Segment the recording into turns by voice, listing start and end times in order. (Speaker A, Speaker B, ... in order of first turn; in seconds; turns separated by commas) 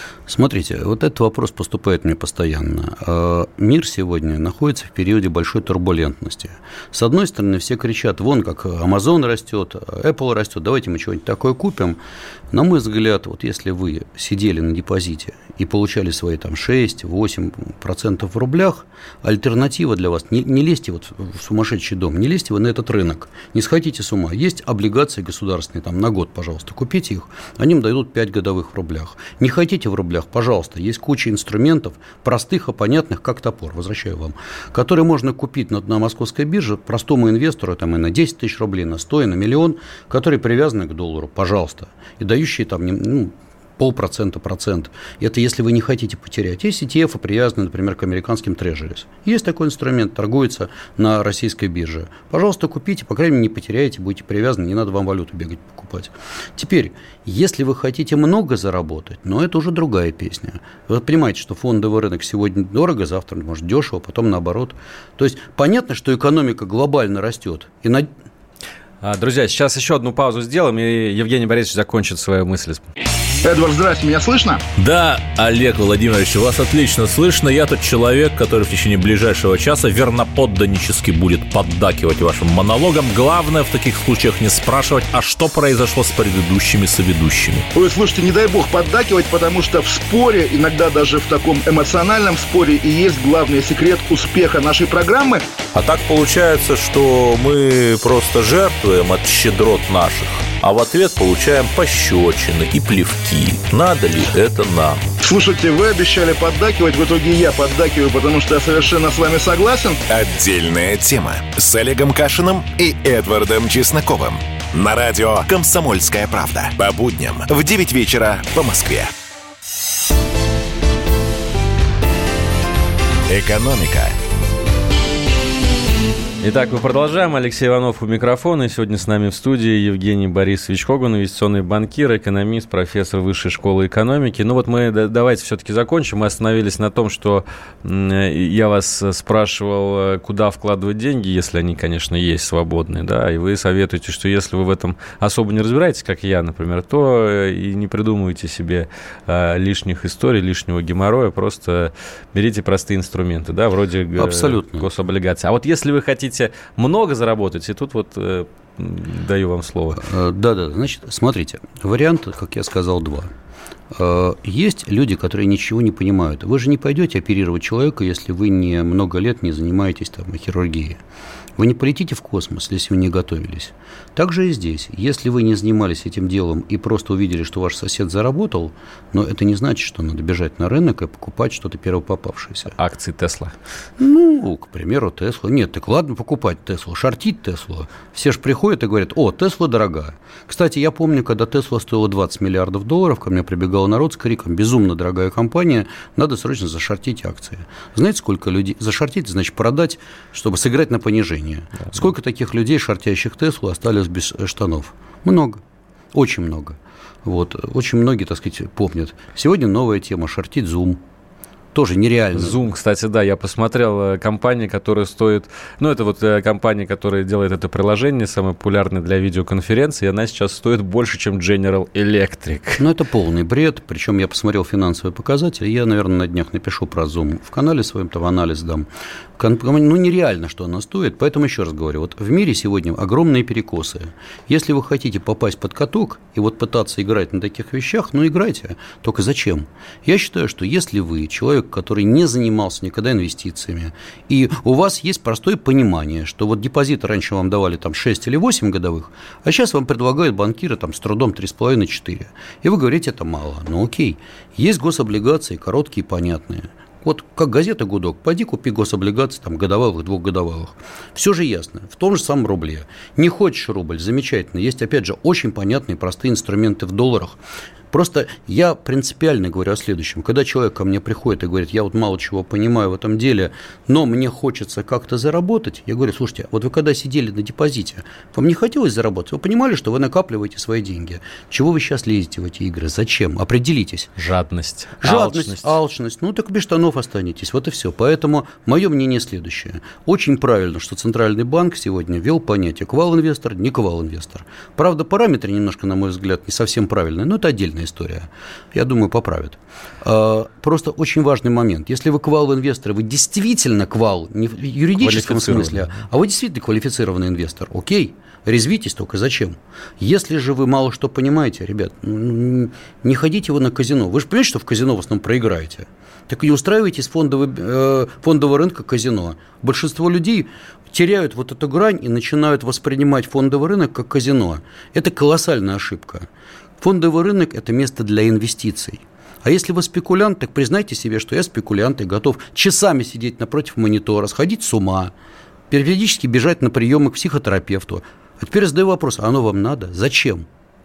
Speaker A: 0.3-12.0, Speaker A: 12.5-68.1, Speaker B: 69.0-72.8, Speaker C: 73.4-74.6, Speaker D: 74.7-87.7, Speaker C: 87.7-95.4, Speaker D: 95.7-105.1, Speaker C: 105.2-110.0, Speaker E: 110.1-119.1, Speaker E: 123.3-124.2, Speaker B: 126.4-160.0, Speaker A: 154.2-154.9, Speaker A: 159.9-163.3, Speaker A: 163.9-171.0, Speaker A: 171.6-182.7, Speaker B: 182.7-183.5, Speaker A: 184.0-205.6, Speaker A: 206.1-211.0, Speaker A: 211.7-212.6, Speaker B: 212.3-222.8, Speaker A: 222.8-267.4, Speaker A: 267.9-284.1, Speaker B: 284.2-285.8, Speaker A: 285.0-326.3, Speaker B: 305.0-306.0, Speaker A: 326.8-335.1, Speaker A: 335.7-340.4